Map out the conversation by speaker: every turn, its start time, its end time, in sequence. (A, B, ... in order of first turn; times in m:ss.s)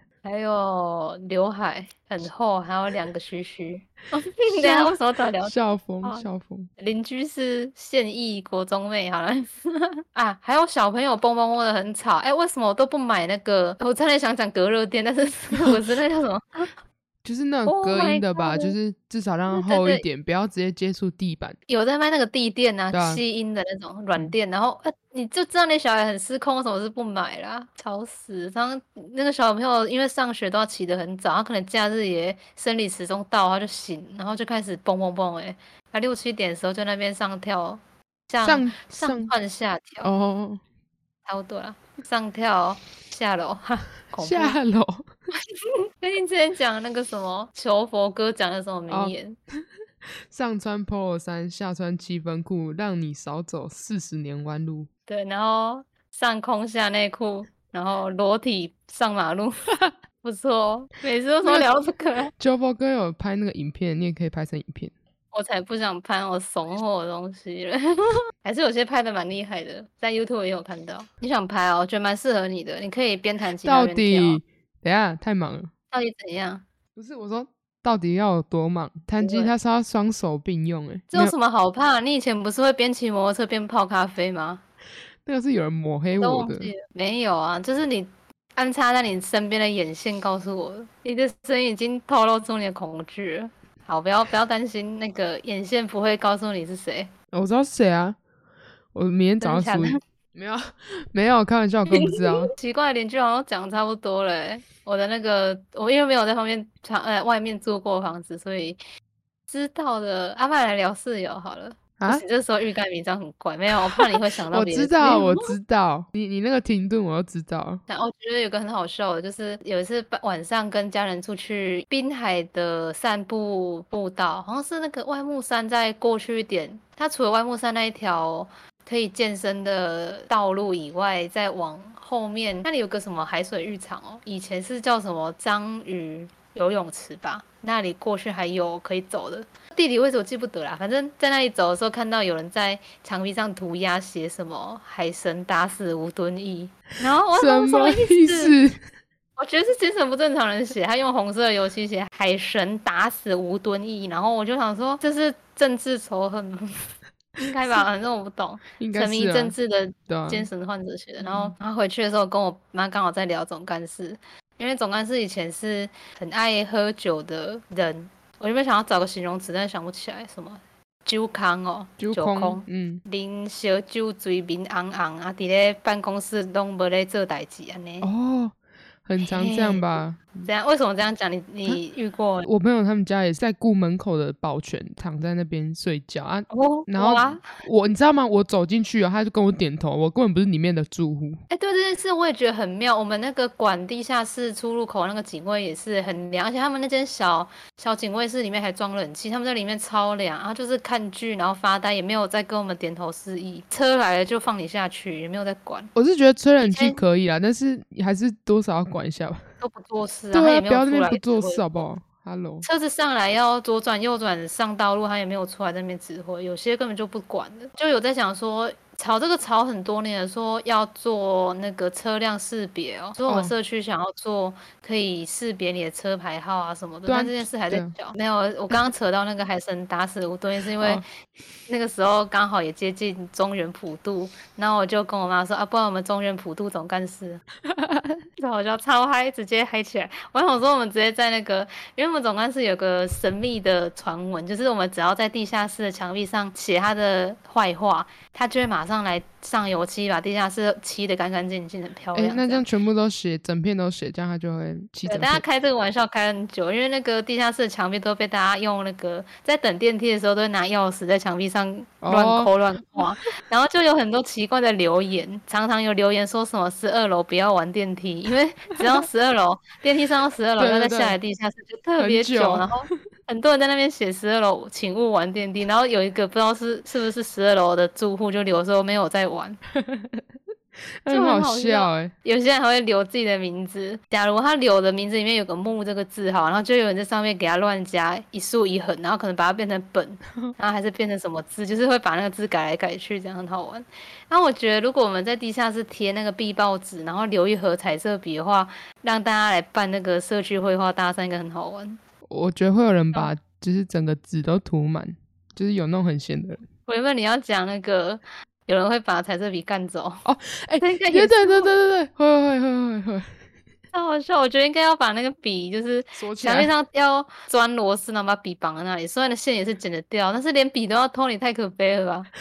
0:00.2-0:06.2 A
0:04.5-0:06.7 B
0:06.8-0:16.7 A
0:17.2-0:21.6 B
0:17.6-0:18.7 A
0:19.5-0:20.0 A
0:21.7-0:40.1 A
0:22.9-0:23.2 B
0:38.4-0:39.3 B
0:40.0-0:40.6 B
0:41.2-0:44.6 A
0:44.2-0:45.1 B
0:46.0-0:49.4 A
0:48.9-0:49.1 B
0:50.3-0:54.9 B
0:55.1-0:59.7 A
1:00.2-1:02.3 A
1:01.4-1:01.7 B
1:02.4-1:04.9 B
1:05.3-1:14.4 A
1:13.6-1:15.7 B
1:15.9-1:16.6 A
1:17.0-1:21.3 B
1:19.2-1:19.5 A
1:21.1-1:24.6 A
1:25.2-1:26.7 B
1:26.1-1:37.1 A
1:37.3-1:38.2 B
1:38.9-1:42.5 B
1:39.4-1:40.0 A
1:41.9-1:48.8 A
1:49.5-1:55.5 A
1:52.0-1:52.2 B
1:53.9-1:57.8 B
1:57.9-2:28.5 A
2:27.4-2:28.8 B
2:29.4-2:36.8 A
2:37.4-2:58.1 A
2:38.8-2:39.5 B
2:40.1-2:40.5 B
2:41.2-2:41.5 B
2:52.0-2:53.0 B
2:58.0-3:00.5 B
2:59.2-3:02.5 A
3:02.4-3:11.4 B
3:06.5-3:07.4 A
3:11.5-3:25.9 A
3:25.9-3:29.4 B
3:26.6-3:27.0 A
3:29.6-3:31.8 A
3:30.3-3:32.6 B
3:32.6-3:51.0 A
3:43.3-3:43.5 B
3:47.0-3:47.9 B
3:51.7-3:57.4 A
3:57.7-3:58.2 B
3:58.4-4:12.6 A
4:12.1-4:15.4 B
4:15.0-4:39.6 A
4:22.0-4:23.0 B
4:30.6-4:31.2 B
4:32.0-4:32.7 B
4:39.7-4:40.2 B
4:41.0-4:42.1 B
4:41.1-5:02.0 A
5:02.3-5:06.6 B
5:06.8-5:10.2 A
5:10.2-5:13.3 B
5:10.8-5:11.7 A
5:13.9-5:22.3 A
5:16.2-5:16.7 B